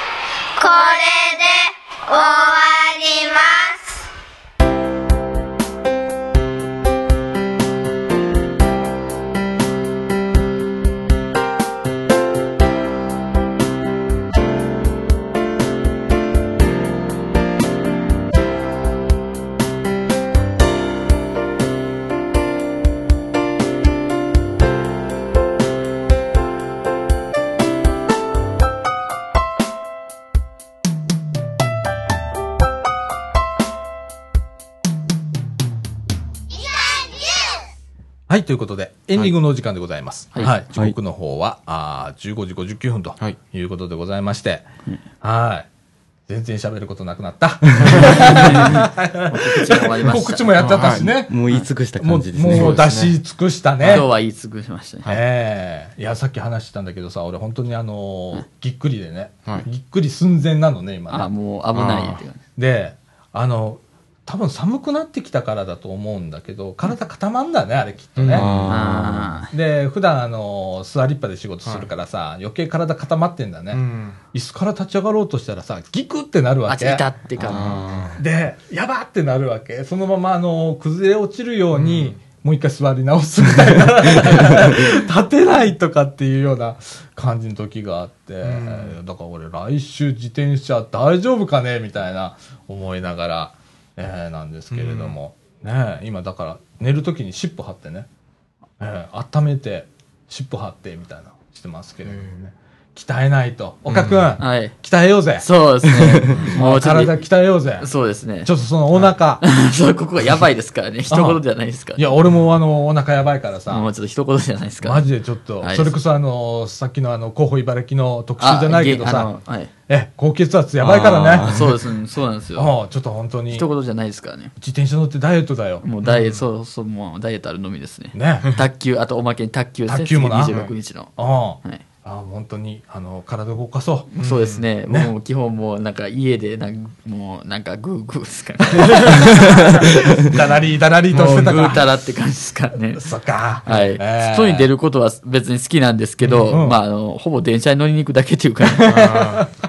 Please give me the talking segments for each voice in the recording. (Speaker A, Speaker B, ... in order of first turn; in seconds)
Speaker A: 0.6-4.0
Speaker B: 38.3-44.6, 45.2-45.7, 46.3-51.4, 52.0-54.1, 55.0-61.3, 62.5-68.5, 69.5-73.8, 74.3-77.0, 78.2-98.1, 98.8-105.5, 106.2-107.9, 108.4-109.4, 111.1-111.4, 112.0-113.8, 114.8-119.3, 119.9-121.7, 122.5-123.7, 124.6-125.8, 128.1-128.5, 129.9-134.1, 138.9-141.9, 142.9-144.7, 146.5-146.8, 148.9-149.4
Speaker C: 47.8-48.2, 50.6-51.1, 52.4-53.1, 53.8-54.1, 61.7-62.2, 68.2-68.7, 73.7-74.2, 77.7-78.1, 81.7-82.2, 88.4-89.0, 94.7-95.2, 103.9-104.4, 106.3-106.6, 126.0-126.4, 134.2-134.7, 146.2-146.6, 148.8-149.5
Speaker D: 47.9-50.5, 53.9-55.1, 61.1-62.4, 68.6-69.5, 76.7-77.8, 104.4-104.7, 105.4-107.3, 107.8-108.5, 109.4-112.0, 113.7-115.1, 115.6-116.0, 118.4-119.7, 121.4-122.7, 123.5-124.5, 125.8-131.8, 134.1-140.3, 141.1-143.0, 143.6-149.2
Speaker E: 50.9-52.8, 68.3-69.4, 77.4-78.2, 120.8-121.7